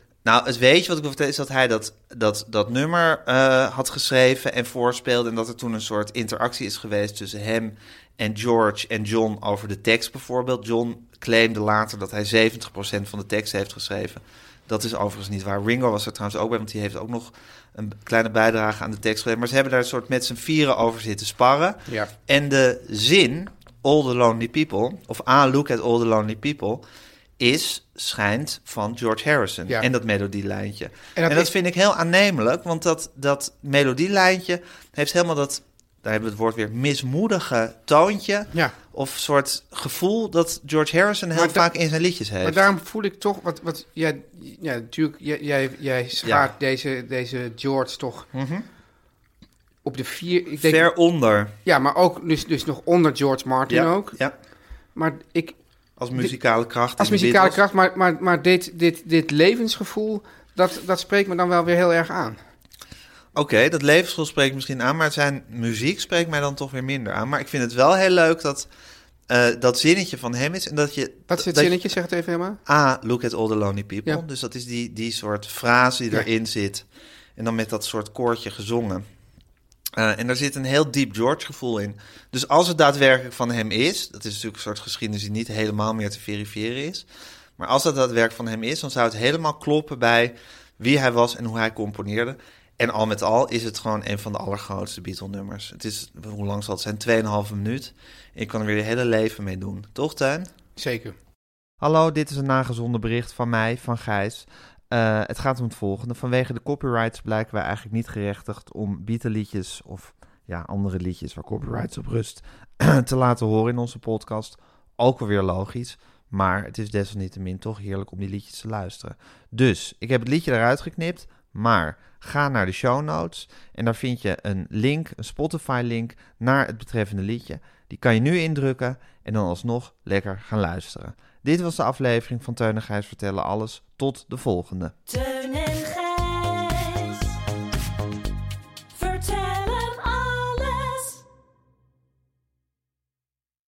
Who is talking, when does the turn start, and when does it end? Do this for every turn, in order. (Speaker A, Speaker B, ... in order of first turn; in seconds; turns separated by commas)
Speaker A: 0.2-26.8, Speaker A: 27.4-42.6, Speaker B: 31.1-31.5, Speaker B: 41.3-41.6, Speaker B: 42.4-48.3, Speaker A: 46.2-46.5, Speaker A: 48.3-48.6, Speaker B: 49.8-50.9, Speaker A: 50.6-51.5, Speaker B: 51.6-54.2, Speaker A: 53.7-54.3, Speaker B: 54.9-55.5, Speaker A: 56.0-57.6, Speaker B: 57.0-62.4, Speaker A: 63.3-68.7, Speaker A: 69.3-71.8, Speaker B: 71.3-72.6, Speaker A: 72.7-76.8, Speaker A: 77.3-79.0, Speaker A: 79.9-87.1, Speaker A: 87.6-100.5, Speaker B: 100.8-101.1, Speaker A: 101.8-134.9, Speaker C: 135.1-137.4, Speaker C: 138.9-141.2